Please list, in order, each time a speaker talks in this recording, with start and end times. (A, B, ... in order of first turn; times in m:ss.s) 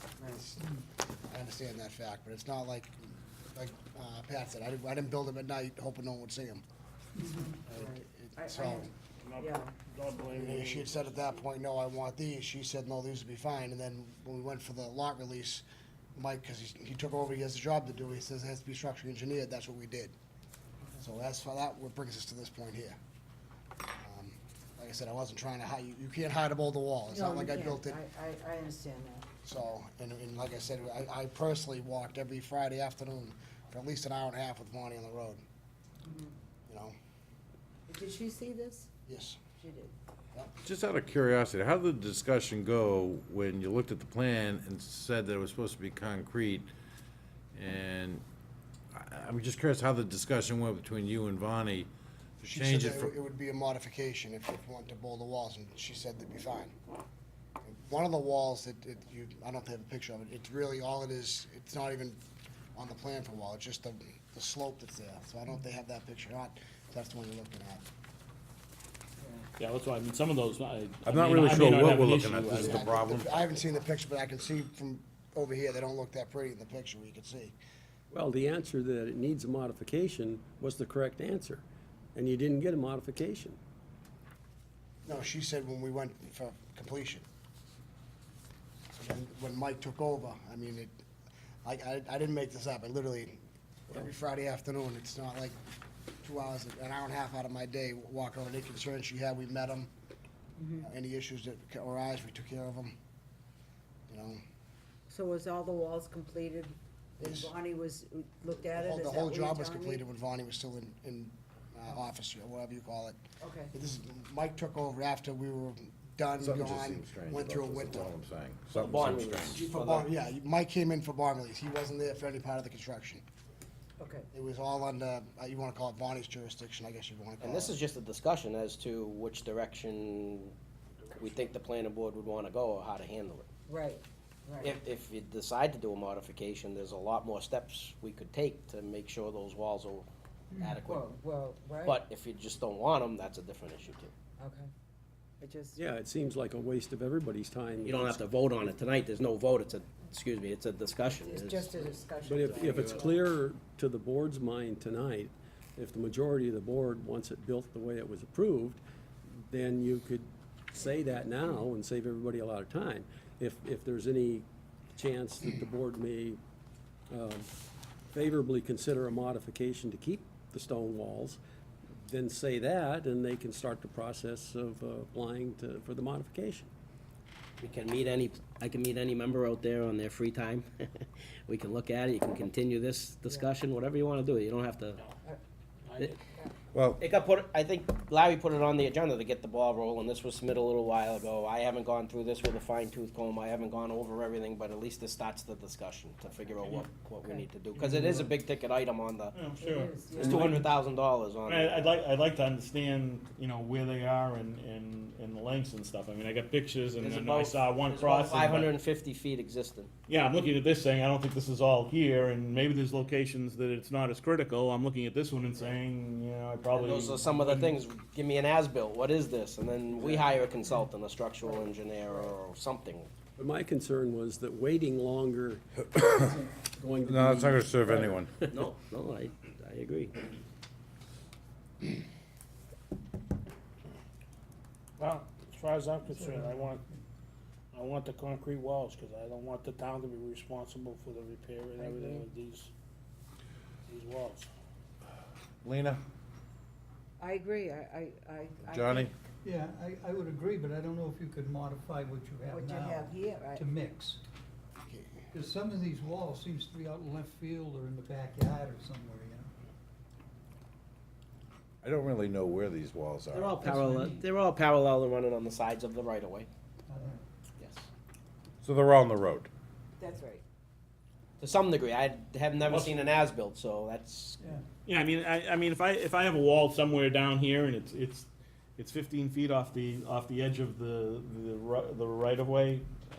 0:00.2-0:00.4 A
0:00.3-0:00.8 B
0:01.3-0:06.6 B
0:07.2-0:09.7 A
0:07.6-0:08.9 B
0:09.2-0:11.3 C
0:10.3-0:15.6 B
0:16.2-0:20.2 B
0:21.0-0:23.0 B
0:24.0-0:28.0 B
0:27.1-0:29.3 A
0:29.4-0:35.4 B
0:36.0-0:36.3 A
0:36.7-0:36.9 B
0:37.9-0:38.9 A
0:39.1-0:39.4 B
0:39.6-0:39.9 A
0:40.6-0:46.7 D
0:47.6-0:48.2 D
0:48.9-0:53.1 D
0:52.5-0:56.8 B
0:57.6-1:02.2 B
1:02.8-1:07.8 B
1:09.6-1:12.8 E
1:11.0-1:13.5 D
1:12.5-1:17.6 B
1:18.1-1:21.6 F
1:22.2-1:23.6 F
1:25.0-1:27.2 B
1:28.9-1:31.0 B
1:31.6-1:35.6 B
1:36.2-1:39.9 B
1:40.6-1:40.9 A
1:40.8-1:43.0 B
1:44.1-1:44.4 B
1:45.1-1:50.0 A
1:47.2-1:47.5 B
1:48.7-1:53.2 B
1:53.4-1:53.7 A
1:53.7-1:58.1 B
1:56.4-1:59.7 D
1:58.7-2:00.1 G
1:59.5-2:03.2 B
2:04.0-2:04.3 A
2:04.3-2:07.8 B
2:07.4-2:10.5 G
2:11.1-2:13.5 G
2:13.7-2:14.8 A
2:14.6-2:21.2 G
2:20.8-2:22.0 A
2:21.8-2:24.1 G
2:24.4-2:24.7 A
2:25.4-2:25.8 A
2:25.8-2:28.8 F
2:27.8-2:32.0 G
2:31.0-2:33.2 A
2:32.2-2:46.4 F
2:47.1-2:47.5 F
2:48.1-2:56.7 F
2:57.6-3:05.0 G
3:05.9-3:06.2 C
3:06.7-3:07.0 D
3:07.0-3:19.4 G
3:17.2-3:17.5 A
3:17.8-3:18.3 E
3:19.3-3:20.6 E
3:19.5-3:20.4 A
3:20.2-3:22.0 G
3:20.2-3:20.6 F
3:21.5-3:28.8 E
3:27.0-3:29.9 G
3:30.1-3:37.8 E
3:36.7-3:43.1 G
3:40.0-3:40.4 F
3:43.4-3:48.6 F
3:47.1-3:48.4 D
3:48.5-3:50.2 G
3:55.0-3:56.8 C
3:56.1-3:57.0 H
3:57.7-4:02.7 C
4:01.8-4:02.2 A
4:03.9-4:04.5 C
4:05.6-4:06.0 D
4:07.2-4:09.1 A
4:08.6-4:09.1 D
4:09.4-4:14.2 H
4:12.5-4:13.7 A
4:14.9-4:15.2 B
4:15.3-4:19.5 H
4:21.8-4:23.6 D
4:23.3-4:26.5 G
4:23.6-4:24.2 H
4:26.9-4:27.2 H
4:27.6-4:27.9 G
4:28.6-4:29.5 D
4:30.0-4:30.4 A
4:31.4-4:34.4 G
4:32.7-4:33.1 E
4:34.9-4:42.9 E